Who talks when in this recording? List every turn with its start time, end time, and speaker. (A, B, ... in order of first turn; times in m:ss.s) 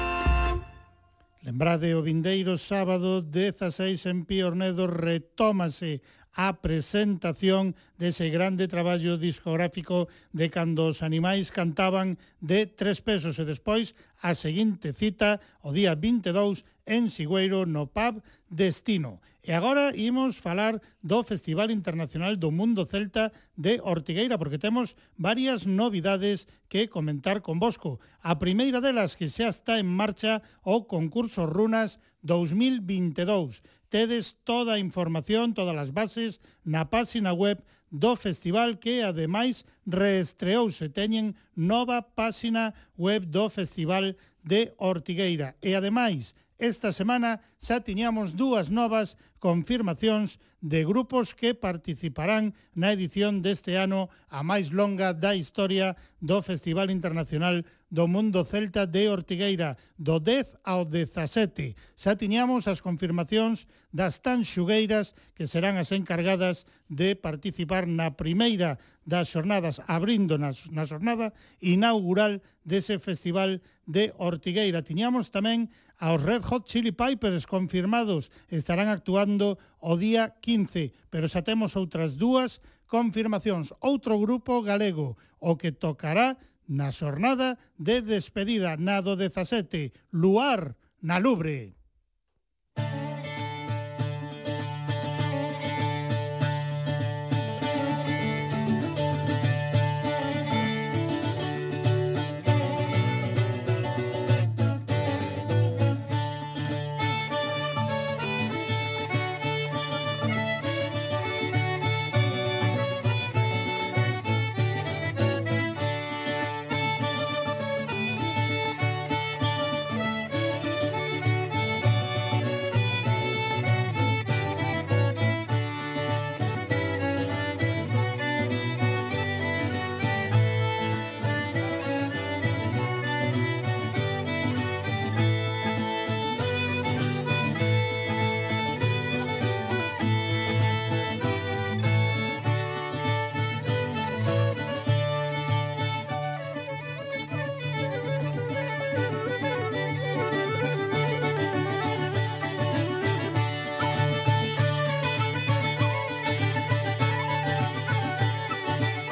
0:01.4-1:31.7 A